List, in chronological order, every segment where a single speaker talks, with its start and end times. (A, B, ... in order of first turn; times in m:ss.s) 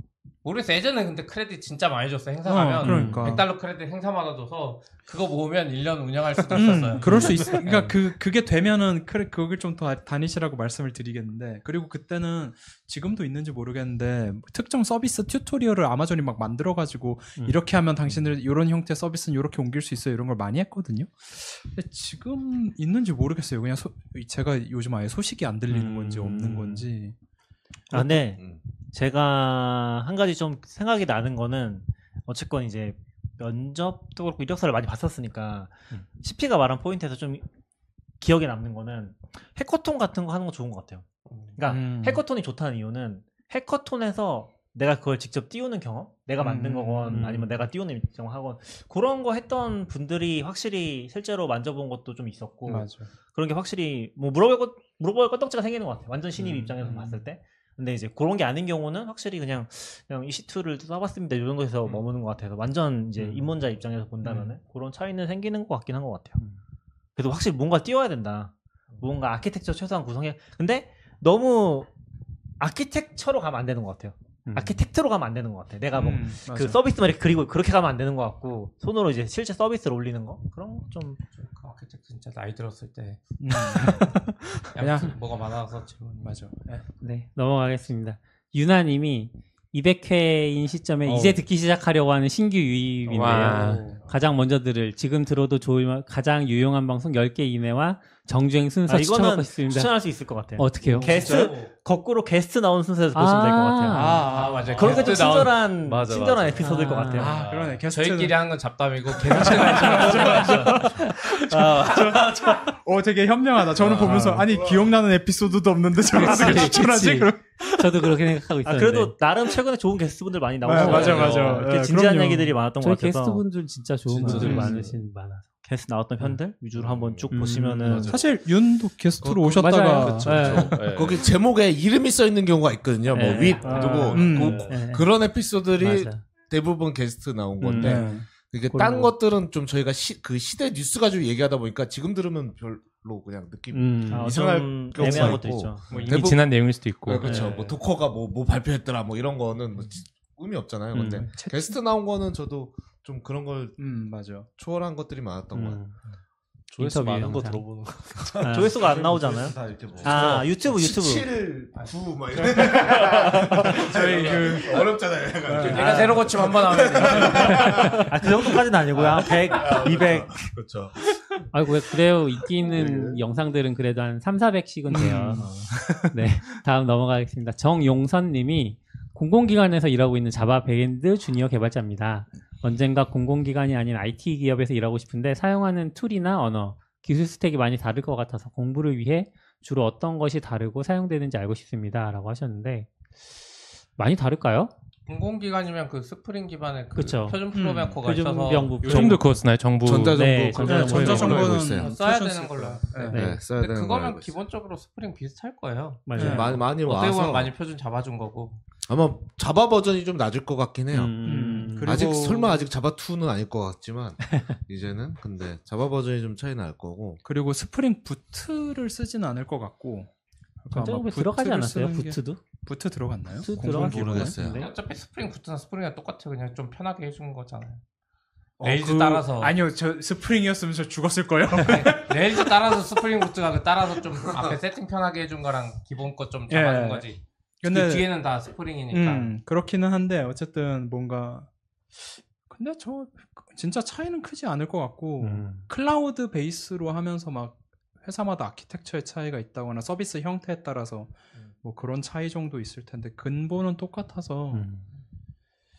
0:00.4-0:08.0 A
0:02.4-0:03.5 B
0:02.8-0:03.4 C
0:06.5-0:27.1 B
0:07.0-0:07.7 C
0:17.4-0:18.2 C
0:25.7-0:26.9 C
0:27.9-0:37.4 D
0:38.2-0:41.0 D
0:41.3-0:41.6 A
0:41.6-1:06.4 D
0:41.7-0:42.2 B
0:46.4-0:47.5 B
0:52.6-0:53.1 B
0:56.4-0:57.2 B
1:03.2-1:03.5 B
1:04.2-1:04.5 B
1:07.2-1:11.9 D
1:12.6-1:21.2 D
1:14.4-1:14.8 C
1:15.9-1:16.8 B
1:21.3-1:24.1 A
1:23.4-1:25.2 B
1:24.7-1:26.5 A
1:26.2-1:26.8 B
1:27.0-1:40.0 C
1:31.1-1:31.4 B
1:33.1-1:33.9 E
1:33.1-1:34.0 B
1:38.9-1:47.4 D
1:40.6-1:41.2 C
1:41.1-1:41.5 F
1:43.1-1:44.2 C
1:43.9-1:45.2 B
1:44.2-1:45.7 A
1:44.6-1:45.0 G
1:45.8-1:47.8 G
1:46.6-1:47.3 C
1:47.2-1:48.5 B
1:47.9-1:50.9 A
1:49.1-1:58.2 B
1:49.8-1:52.7 G
1:53.8-1:54.9 F
1:56.1-1:59.2 C
1:58.6-2:03.4 D
2:00.6-2:02.6 B
2:00.8-2:01.2 C
2:00.8-2:01.6 G
2:02.8-2:05.5 C
2:04.1-2:04.9 G
2:04.2-2:04.8 D
2:04.2-2:04.8 B
2:05.6-2:08.2 D
2:06.8-2:08.3 G
2:07.3-2:08.1 C
2:08.1-2:10.7 B
2:09.2-2:33.8 F
2:09.6-2:10.8 C
2:09.9-2:11.3 G
2:13.1-2:15.1 C
2:13.3-2:14.8 G
2:13.4-2:14.2 D
2:14.1-2:14.6 B
2:15.8-2:16.2 C
2:17.6-2:19.1 C
2:17.8-2:18.2 B
2:23.7-2:25.4 C
2:24.1-2:25.9 D
2:25.9-2:26.4 B
2:25.9-2:27.4 E
2:27.2-2:27.7 C
2:30.9-2:31.3 C
2:31.0-2:31.8 B
2:33.8-2:34.5 B
2:34.6-2:35.8 F
2:35.5-2:36.0 C
2:36.7-2:38.9 G
2:36.8-2:37.6 C
2:38.4-2:38.8 C
2:38.4-2:41.3 D
2:38.5-2:51.0 F
2:43.7-2:44.8 B
2:45.4-2:46.0 B
2:45.6-2:47.8 A
2:45.7-2:46.2 D
2:48.0-2:50.5 D
2:51.5-2:55.5 C
2:52.6-2:53.2 F
2:54.9-2:56.1 B
2:55.4-2:55.7 D
2:56.1-3:12.9 C
3:14.0-3:14.7 C
3:15.1-3:18.8 A
3:17.0-3:17.4 C
3:17.5-3:18.0 B
3:18.0-3:19.2 C
3:18.8-3:21.2 E
3:18.8-3:19.3 B
3:19.8-3:21.9 F
3:20.1-3:21.4 C
3:20.6-3:23.3 B
3:21.3-3:28.6 A
3:23.1-3:23.4 C
3:23.1-3:24.4 F
3:26.1-3:26.4 C
3:26.1-3:26.4 D
3:26.2-3:26.6 B
3:26.2-3:27.5 F
3:28.9-3:37.2 F
3:30.9-3:32.1 C
3:31.2-3:32.6 B
3:37.2-3:40.1 B
3:40.6-3:44.4 B
3:40.7-3:42.4 C
3:43.3-3:44.7 C
3:43.5-3:44.7 F
3:44.5-3:47.8 A
3:48.6-3:52.8 B
3:48.6-3:49.6 A
3:51.6-3:59.4 A
3:56.5-3:57.1 B
3:57.6-3:58.1 B
3:58.9-4:14.6 B
4:05.2-4:05.6 C
4:14.5-4:14.8 C